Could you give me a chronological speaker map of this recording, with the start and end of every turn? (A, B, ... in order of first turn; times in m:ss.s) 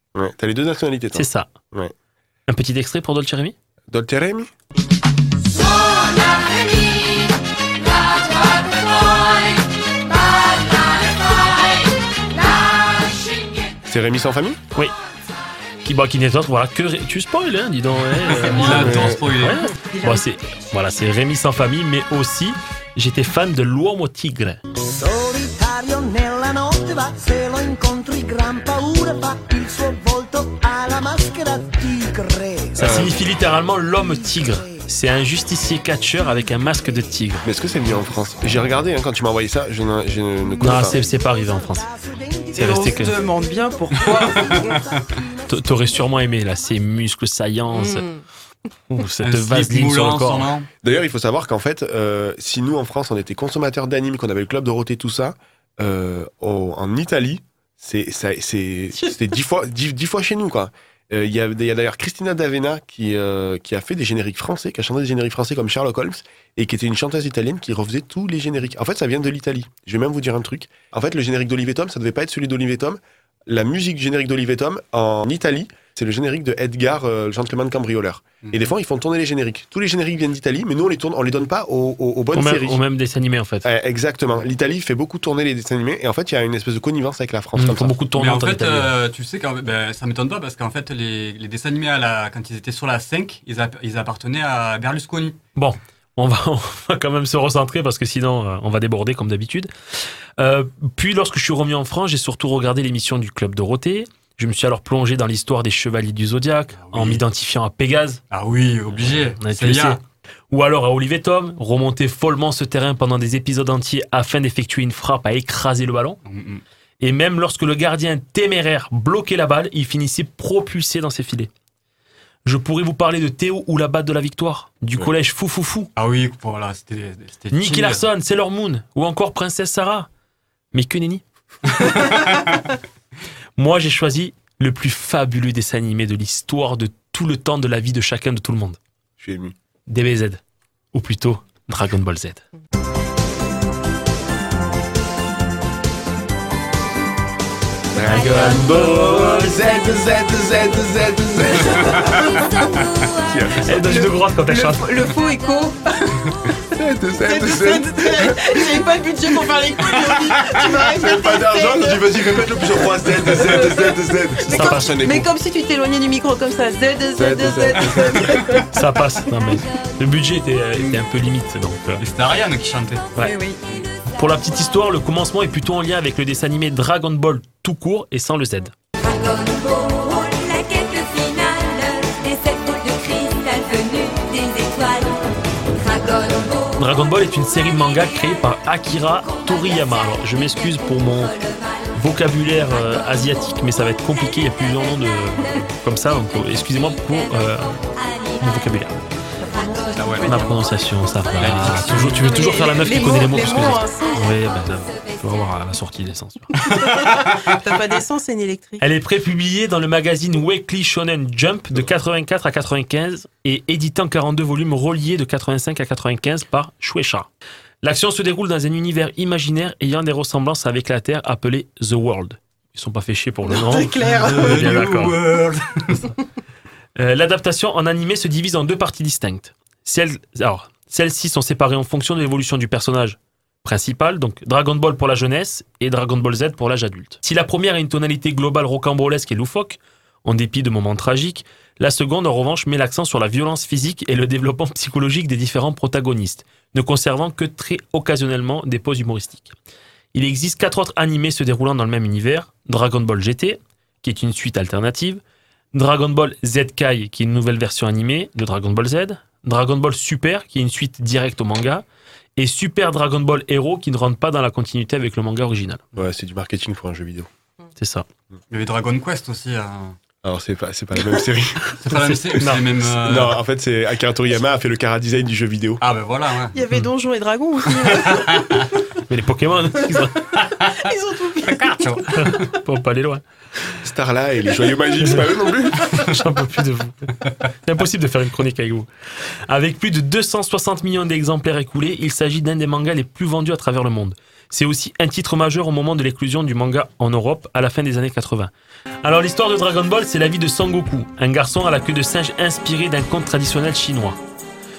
0:00.2-0:01.9 A
0:01.1-0:01.5 B
0:02.5-0:03.6 B
0:03.9-0:04.5 A
0:10.1-0:11.6 C
0:13.9-0:14.6 A
0:15.8-0:24.6 B
0:18.3-0:19.6 D
0:18.3-0:19.1 E
0:18.8-0:19.2 A
0:19.8-0:20.3 E
0:25.0-0:34.8 F
0:32.8-0:37.5 B
0:32.8-0:33.2 A
0:37.4-0:41.0 A
0:40.6-0:46.8 F
0:40.6-0:41.9 B
0:42.5-0:43.2 B
0:42.5-0:44.8 E
0:45.5-0:48.1 B
0:47.7-0:48.2 E
0:48.9-0:50.5 B
0:49.2-0:50.7 D
0:50.8-1:22.8 A
1:18.4-1:18.7 D
1:22.3-1:23.7 B
1:23.6-1:27.9 A
1:27.6-1:28.9 B
1:28.1-1:35.4 D
1:35.6-1:39.7 B
1:40.4-1:48.2 B
1:46.8-1:47.2 D
1:48.3-1:50.0 D
1:48.9-1:56.2 B
1:56.3-1:56.6 D
1:57.0-2:01.5 B
2:02.4-2:05.9 B
2:06.0-2:08.1 D
2:07.5-2:10.1 B
2:10.7-2:11.2 B
2:12.0-2:12.4 D
2:13.6-2:18.8 B
2:19.2-2:19.6 A
2:19.9-2:20.4 B
2:20.9-2:22.4 B
2:27.9-2:32.3 A
2:28.0-2:33.7 C
2:28.1-2:29.6 B
2:33.3-2:33.8 A
2:33.6-2:35.0 B
2:33.8-2:36.4 E
2:35.1-2:35.6 C
2:36.8-2:38.7 A
2:37.2-2:48.6 E
2:40.9-2:45.3 A
2:44.5-2:45.0 B
2:47.2-2:48.6 A
2:48.7-2:52.0 B
2:49.4-2:49.9 C
2:52.0-2:53.1 D
2:53.2-2:53.6 E
2:53.6-2:54.9 C
2:54.1-2:58.7 B
2:59.0-3:18.9 C
3:06.8-3:11.4 B
3:11.9-3:17.7 B
3:18.4-3:19.0 B
3:19.4-3:20.6 E
3:19.4-3:25.7 C
3:20.0-3:20.3 D
3:20.2-3:26.5 B
3:21.4-3:22.3 D
3:22.0-3:24.3 E
3:26.6-3:28.8 E
3:26.7-3:27.6 D
3:28.8-3:37.3 B
3:37.8-3:45.2 B
3:43.5-3:44.8 E
3:44.0-3:46.1 D
3:47.0-4:09.5 B
4:10.1-4:15.2 B
4:15.7-4:21.8 B
4:22.4-4:25.8 B
4:26.0-4:27.3 A
4:27.8-4:28.1 B
4:28.5-4:30.0 D
4:30.2-4:31.7 A
4:31.8-4:33.4 D
4:31.9-4:32.7 B
4:33.0-4:35.8 A
4:35.8-4:36.6 D
4:36.5-4:38.7 E
4:37.9-4:38.5 D
4:39.1-4:40.3 B
4:40.7-4:42.1 E
4:41.4-4:42.2 D
4:42.1-4:43.2 B
4:43.8-4:45.9 A
4:45.0-4:45.3 B
4:45.8-4:47.0 B
4:47.6-4:48.9 B
4:49.5-4:58.5 B
4:59.0-5:04.2 B